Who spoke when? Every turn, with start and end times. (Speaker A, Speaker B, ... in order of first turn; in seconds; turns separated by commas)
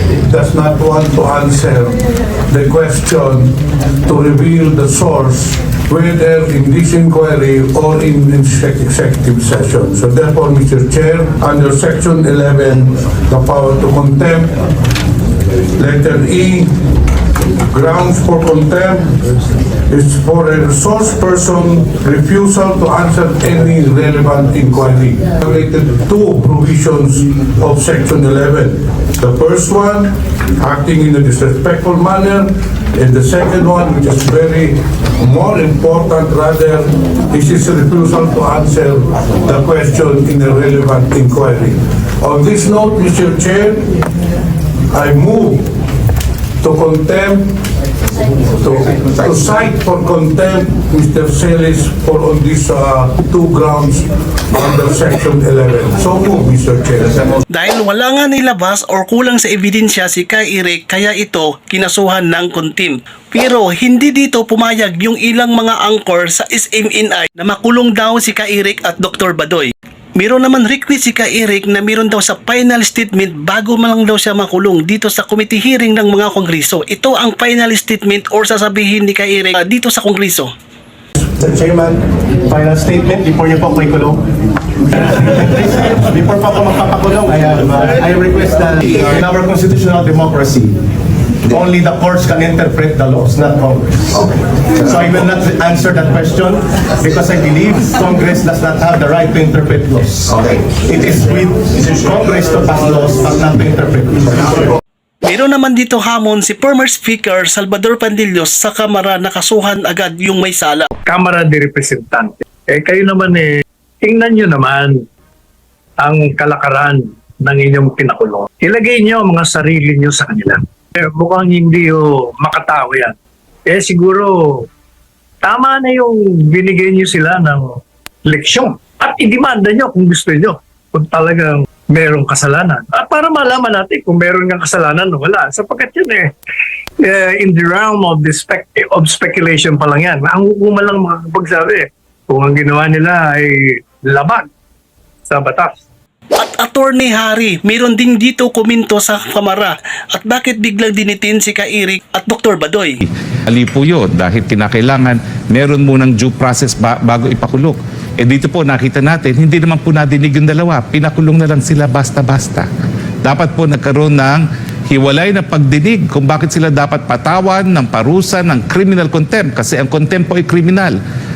Speaker A: 0.2-3.5, Speaker A: 4.0-14.6, Speaker A: 15.8-16.7, Speaker A: 17.7-19.1, Speaker A: 19.9-43.9, Speaker A: 44.9-45.6, Speaker A: 46.6-47.5, Speaker A: 48.6-57.4, Speaker B: 57.5-80.5, Speaker C: 81.2-84.2, Speaker C: 84.8-90.8, Speaker C: 91.5-104.8, Speaker B: 105.2-110.9, Speaker D: 111.0-115.0, Speaker D: 116.0-124.7, Speaker D: 125.4-136.3, Speaker D: 137.0-144.5, Speaker D: 145.3-145.8, Speaker B: 146.3-153.0, Speaker E: 153.5-162.7, Speaker E: 163.2-171.0